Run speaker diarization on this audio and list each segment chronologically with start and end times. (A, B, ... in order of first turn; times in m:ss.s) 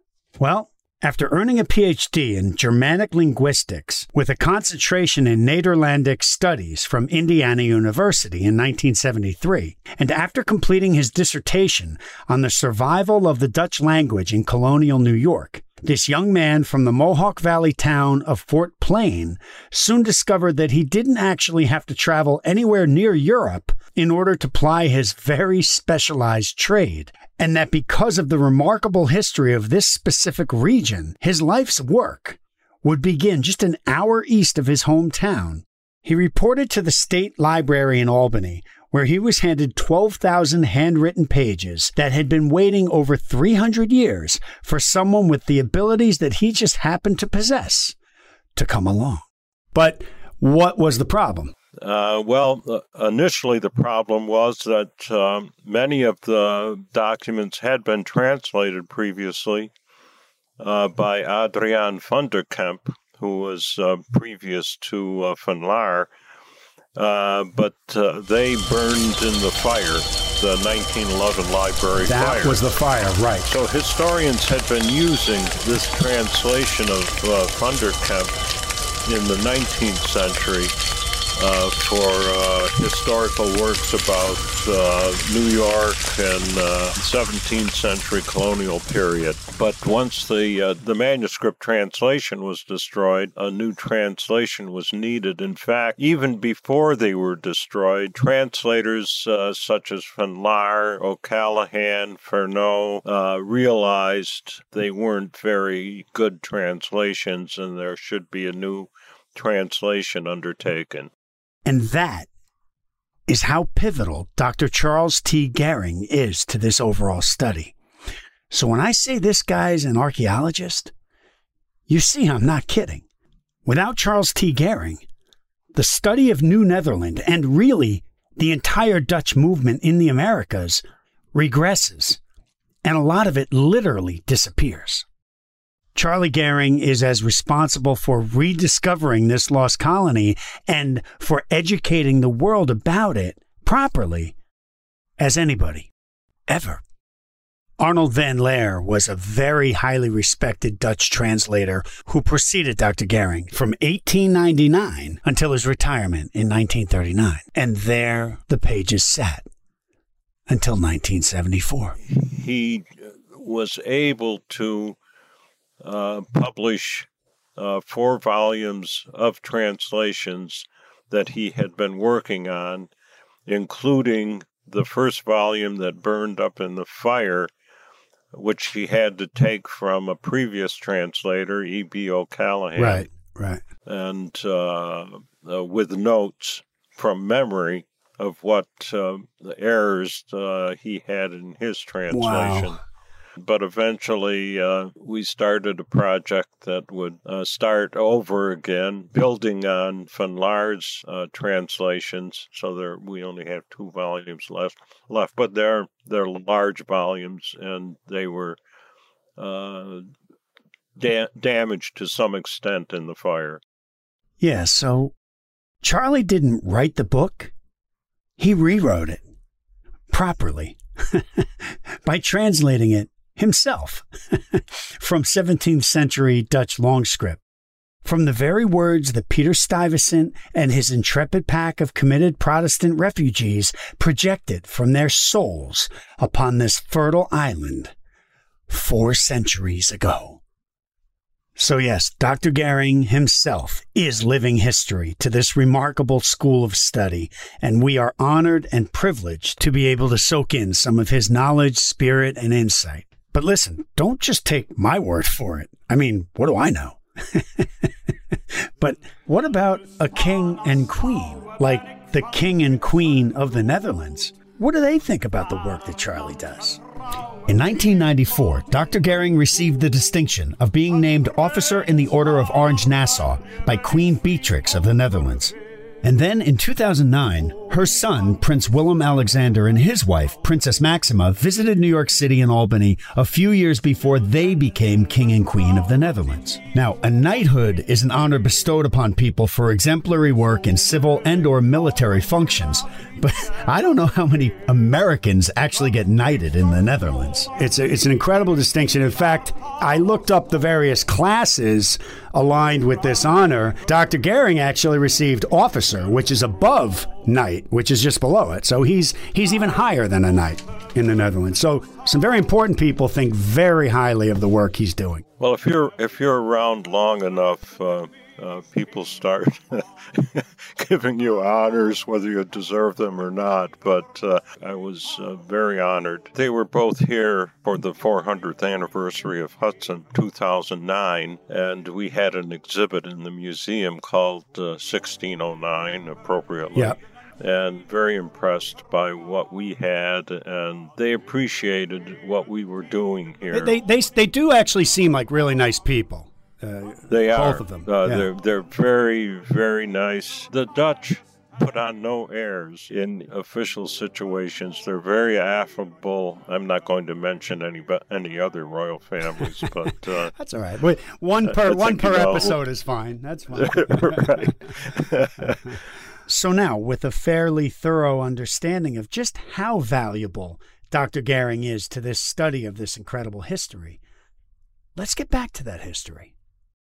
0:00.4-0:48.0 A
0:48.6-0:51.5 A
0:51.8-0:59.7 B
1:00.6-1:06.1 B
1:07.0-1:12.6 B
1:12.0-1:13.5 A
1:13.4-1:18.3 B
1:19.1-1:20.7 B
1:21.4-1:51.1 B
1:51.6-1:52.3 A
1:53.3-1:57.7 A
1:58.5-2:00.9 A
2:01.9-2:03.0 A
2:03.6-2:05.0 A
2:05.7-2:12.2 A
2:12.8-2:15.0 A
2:16.0-2:24.4 A
2:25.2-2:25.9 A
2:26.5-2:26.8 A
2:27.8-2:39.5 A
2:40.5-2:42.0 A
2:42.1-2:45.0 B
2:45.8-2:52.9 B
2:53.5-2:57.5 B
2:58.3-3:03.1 B
3:02.8-3:03.6 A
3:03.9-3:12.8 B
3:12.1-3:12.8 A
3:13.4-3:28.6 B
3:29.4-3:30.1 B
3:31.0-3:33.6 B
3:34.4-3:35.1 A
3:35.8-3:37.5 A
3:38.4-3:39.2 A
3:40.1-3:47.4 A
3:48.0-3:57.9 A
3:58.7-4:00.4 A
4:01.6-4:26.8 A
4:27.5-5:15.2 A
5:15.4-5:43.7 B
5:43.5-5:48.3 A
5:47.1-6:00.3 B
6:00.4-6:04.5 A
6:01.5-6:02.6 B
6:03.6-6:05.7 B
6:06.3-6:14.0 A
6:15.0-6:16.3 A